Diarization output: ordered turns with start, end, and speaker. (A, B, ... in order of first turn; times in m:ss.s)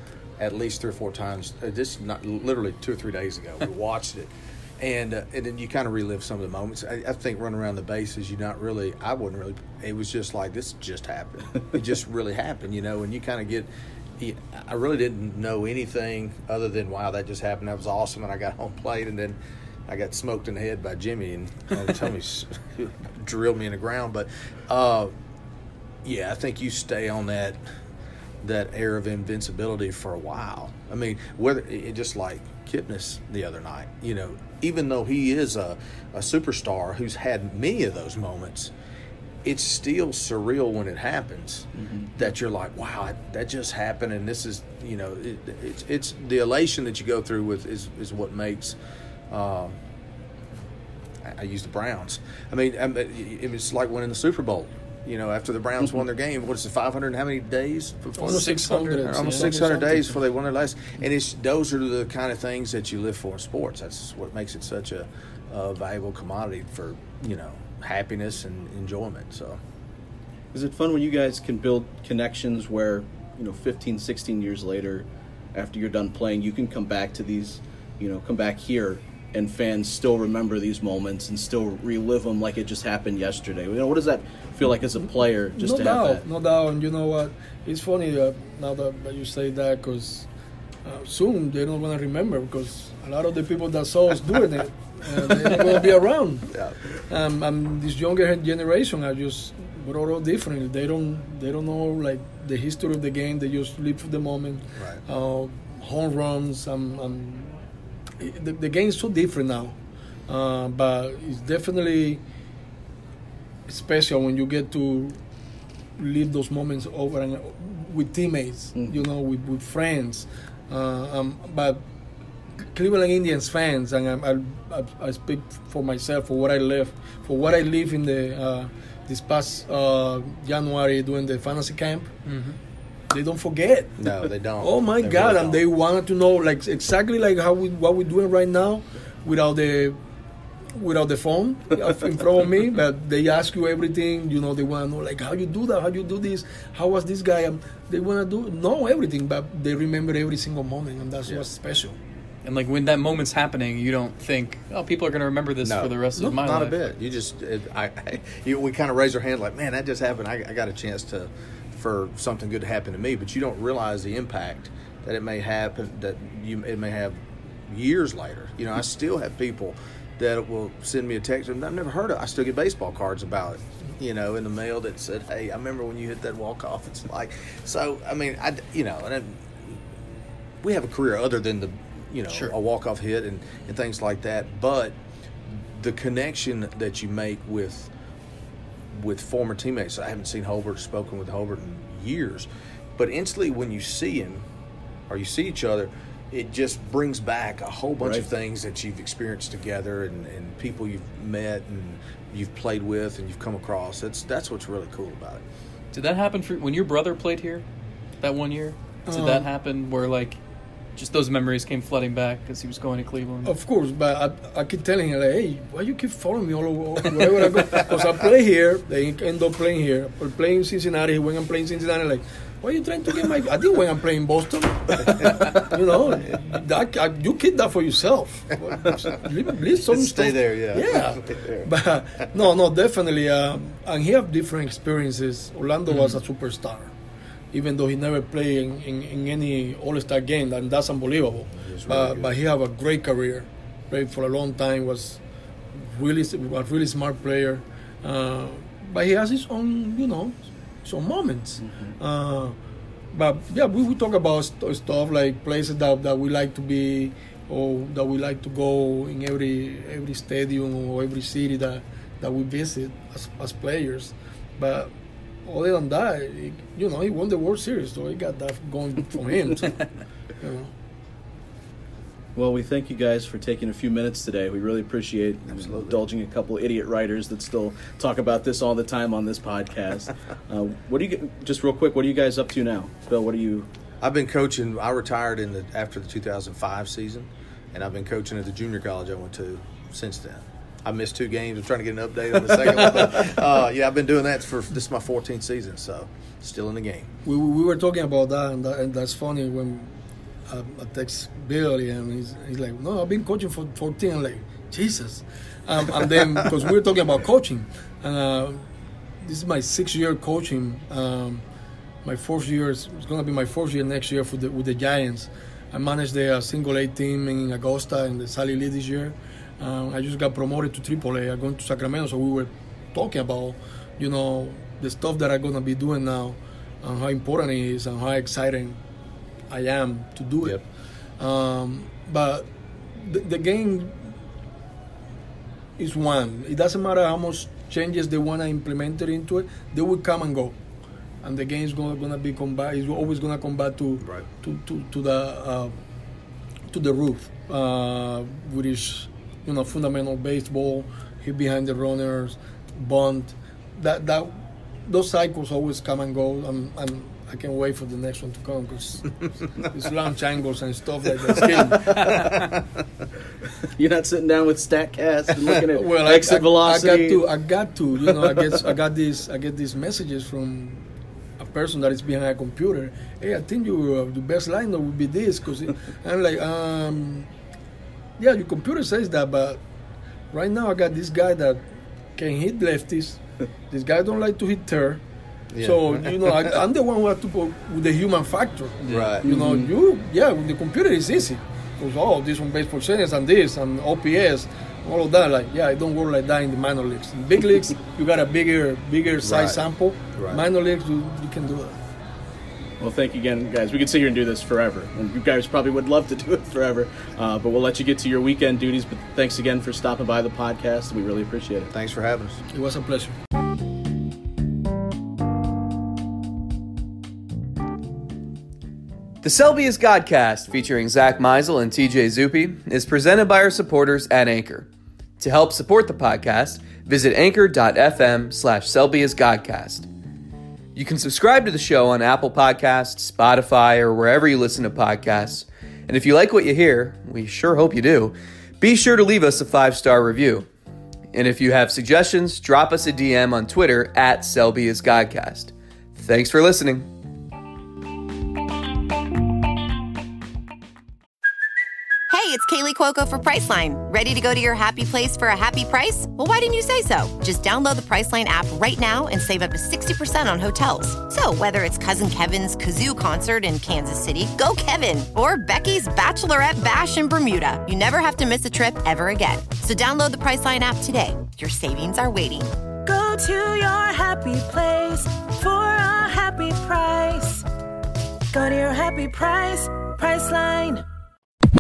0:00.4-0:25.1 A
0:26.0-0:27.6 A
0:28.4-0:38.7 A
0:39.4-0:48.8 A
0:41.8-0:42.1 B
0:49.3-0:49.8 A
0:51.2-1:09.6 A
0:58.2-1:00.1 C
0:58.2-0:59.6 D
1:10.5-1:26.2 B
1:25.6-1:30.3 C
1:30.8-1:47.6 C
1:36.5-1:36.8 A
1:44.8-1:45.0 A
1:48.2-1:49.8 C
1:50.3-1:52.2 C
1:53.7-1:55.2 C
1:56.0-2:01.8 C
1:58.8-1:59.0 B
2:02.7-2:12.1 C
2:12.3-2:12.6 D
2:13.1-2:20.0 C
2:14.0-2:15.6 A
2:20.8-2:32.0 C
2:32.4-2:36.9 D
2:35.6-2:59.8 A
3:00.6-3:07.9 A
3:08.9-3:14.5 A
3:15.1-3:25.4 A
3:18.0-3:18.3 B
3:25.9-3:27.6 D
3:28.2-3:30.4 D
3:29.1-3:29.5 C
3:31.0-3:33.5 D
3:33.4-3:56.9 C
3:37.2-3:37.8 D
3:49.9-3:51.7 A
3:55.9-3:56.2 D
3:57.5-4:05.2 C
4:01.6-4:02.4 A
4:05.8-4:12.6 C
4:11.6-4:12.0 B
4:13.1-4:24.9 C
4:25.5-4:30.7 C
4:32.4-4:43.7 B
4:35.5-4:36.0 A
4:44.0-4:57.1 A
4:57.2-4:59.9 C
5:00.5-5:08.6 C
5:09.2-5:11.4 C
5:12.0-5:28.8 C
5:29.5-5:30.6 C
5:31.2-5:34.1 C
5:35.8-5:40.6 C
5:41.2-5:45.7 C
5:46.7-5:54.3 C
5:54.9-6:02.3 C
6:01.6-6:02.6 A
6:02.0-6:02.3 D
6:03.6-6:07.2 B
6:05.7-6:10.8 C
6:11.4-6:17.3 C
6:18.2-6:19.6 C
6:20.3-6:21.6 C
6:22.2-6:25.0 C
6:25.5-6:26.6 A
6:25.6-6:41.8 C
6:28.8-6:29.1 D
6:28.9-6:29.3 A
6:29.2-6:29.7 B
6:39.2-6:40.4 A
6:42.8-6:51.7 B
6:51.7-6:52.4 A
6:52.5-6:53.2 C
6:59.2-7:09.9 E
7:10.8-7:20.5 E
7:21.1-7:26.9 E
7:32.1-7:52.5 F
7:52.8-7:57.4 G
7:58.3-8:00.8 G